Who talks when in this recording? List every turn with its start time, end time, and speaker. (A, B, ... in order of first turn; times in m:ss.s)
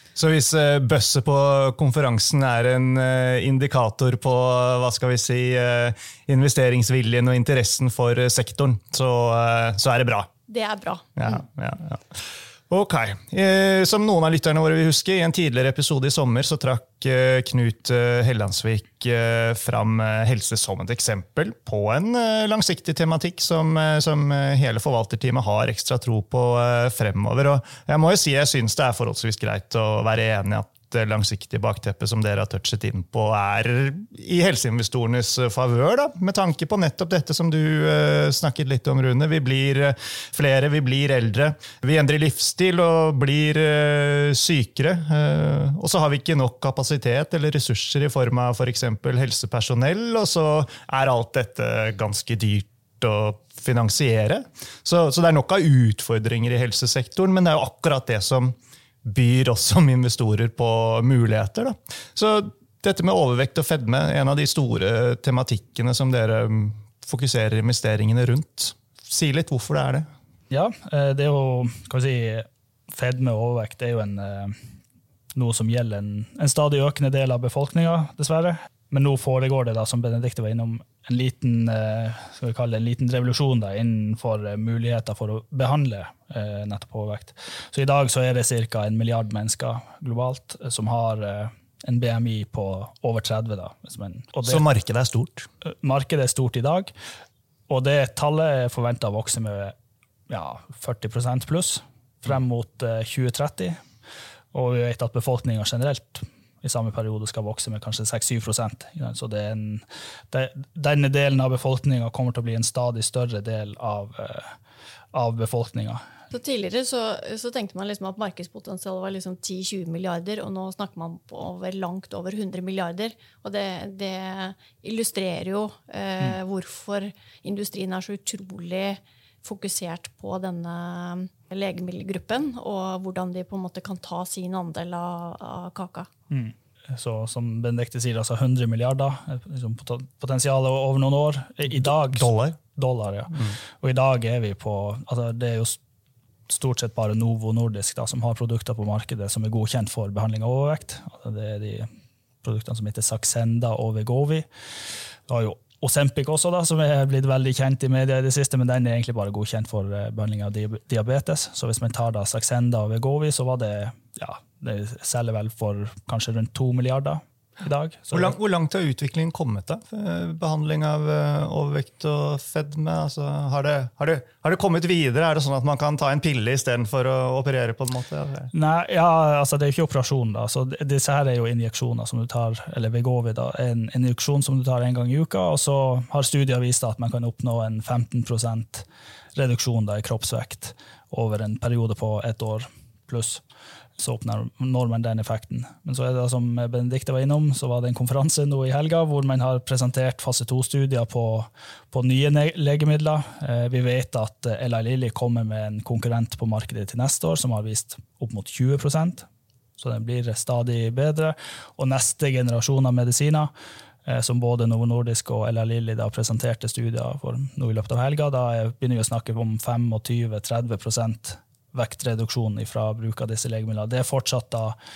0:00.2-0:10.3 A
0:10.5-0:11.3 B
0:11.2-1:10.1 A
1:10.5-1:14.6 C
1:15.3-1:34.6 C
1:34.4-1:35.5 A
1:35.6-1:36.9 C
1:37.7-1:39.7 C
1:40.3-1:43.8 C
1:44.5-1:54.6 C
1:55.1-1:56.0 C
1:56.3-2:16.1 B
2:16.3-2:25.8 C
2:21.7-2:22.6 A
2:26.5-2:31.9 C
2:32.4-2:34.5 C
2:35.3-2:48.4 C
2:48.1-2:58.5 A
2:58.5-3:13.4 C
3:14.0-3:29.3 C
3:29.8-3:33.5 C
3:34.0-3:44.7 C